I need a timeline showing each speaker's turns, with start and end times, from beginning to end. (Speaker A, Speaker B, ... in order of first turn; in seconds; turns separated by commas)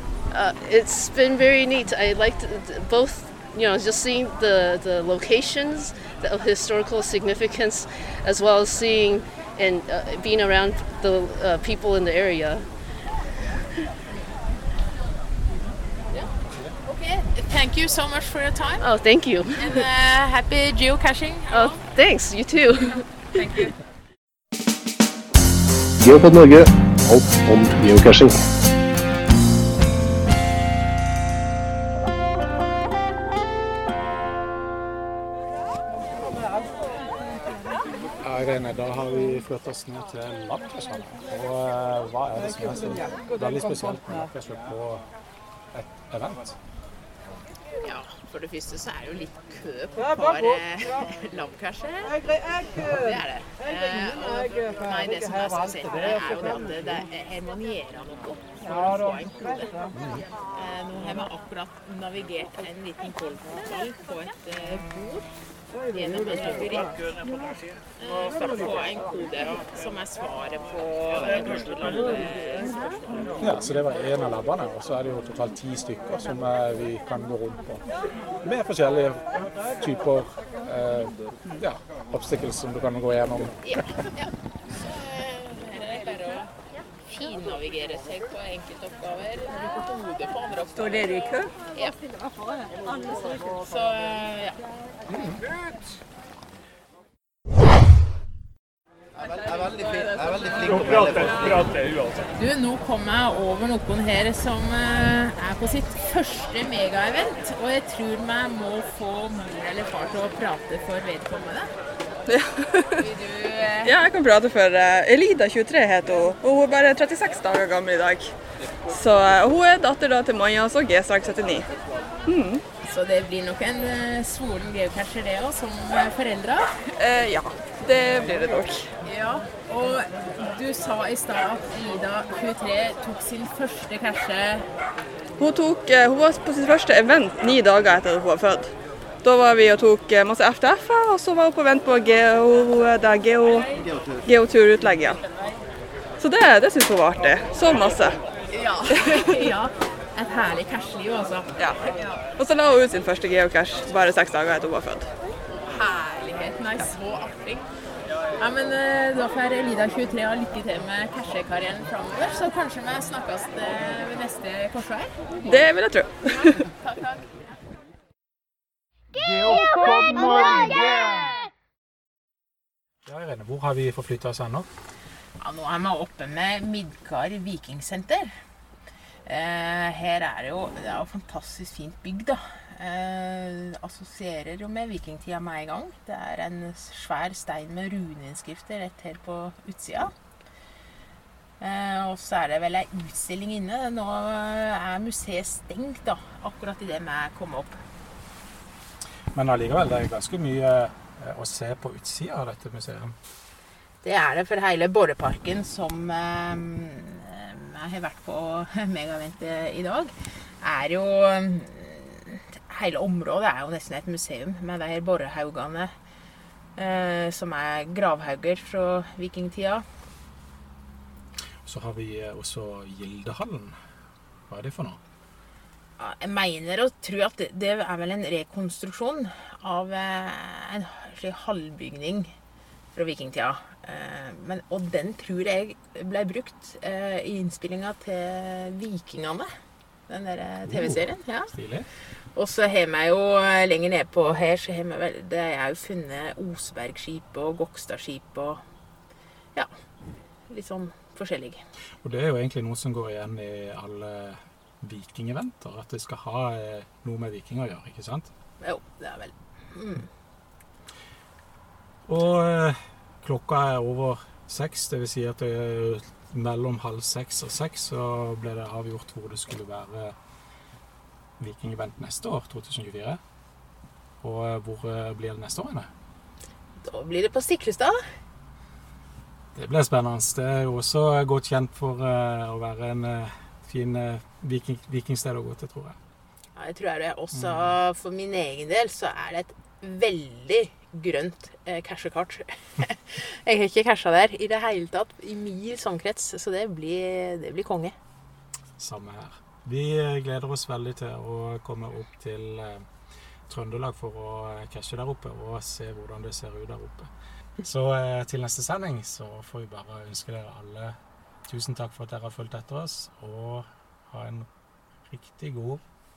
Speaker A: 0.3-12.7, Speaker B: 16.9-18.9, Speaker A: 18.8-19.8, Speaker B: 19.6-21.8, Speaker A: 21.5-23.1, Speaker B: 23.3-23.7, Speaker C: 26.0-28.4, Speaker D: 38.2-45.0, Speaker D: 45.7-46.6, Speaker B: 47.8-52.2, Speaker B: 52.8-59.8, Speaker B: 60.5-65.3, Speaker B: 65.9-66.9, Speaker B: 68.0-72.7, Speaker D: 73.4-77.8, Speaker D: 78.4-79.2, Speaker D: 79.8-83.6, Speaker B: 83.6-86.5, Speaker B: 87.1-92.0, Speaker B: 93.5-94.6, Speaker B: 99.2-101.7, Speaker B: 102.3-111.7, Speaker E: 112.3-113.0, Speaker B: 112.9-114.0, Speaker E: 113.8-118.3, Speaker E: 118.9-121.7, Speaker E: 122.3-122.6, Speaker B: 122.8-126.7, Speaker E: 127.0-128.8, Speaker B: 129.0-134.7, Speaker E: 135.4-143.7, Speaker E: 144.2-145.2, Speaker E: 146.2-148.2, Speaker B: 148.5-152.1, Speaker E: 152.4-155.1, Speaker B: 155.5-157.7, Speaker B: 158.4-165.6, Speaker E: 165.4-166.5, Speaker B: 166.2-167.3, Speaker B: 169.5-170.8, Speaker D: 173.1-174.7, Speaker B: 175.4-178.3, Speaker B: 179.2-190.1, Speaker B: 191.6-197.8, Speaker D: 199.3-203.2, Speaker B: 204.0-215.9, Speaker B: 216.8-219.8, Speaker D: 221.6-223.8, Speaker D: 224.5-225.0, Speaker B: 226.0-232.3, Speaker B: 232.9-239.5, Speaker B: 240.1-241.5, Speaker D: 240.7-241.0, Speaker D: 241.5-241.9, Speaker B: 242.3-248.6, Speaker B: 250.5-251.6, Speaker D: 252.0-258.3, Speaker B: 258.6-260.1, Speaker D: 262.1-270.1, Speaker D: 271.4-273.2, Speaker D: 274.2-275.9, Speaker B: 276.8-278.0, Speaker D: 279.5-286.0, Speaker B: 286.5-297.9, Speaker D: 287.3-287.8, Speaker D: 298.8-302.8, Speaker D: 303.5-307.1, Speaker D: 307.6-310.9, Speaker D: 311.5-314.5, Speaker D: 315.1-315.8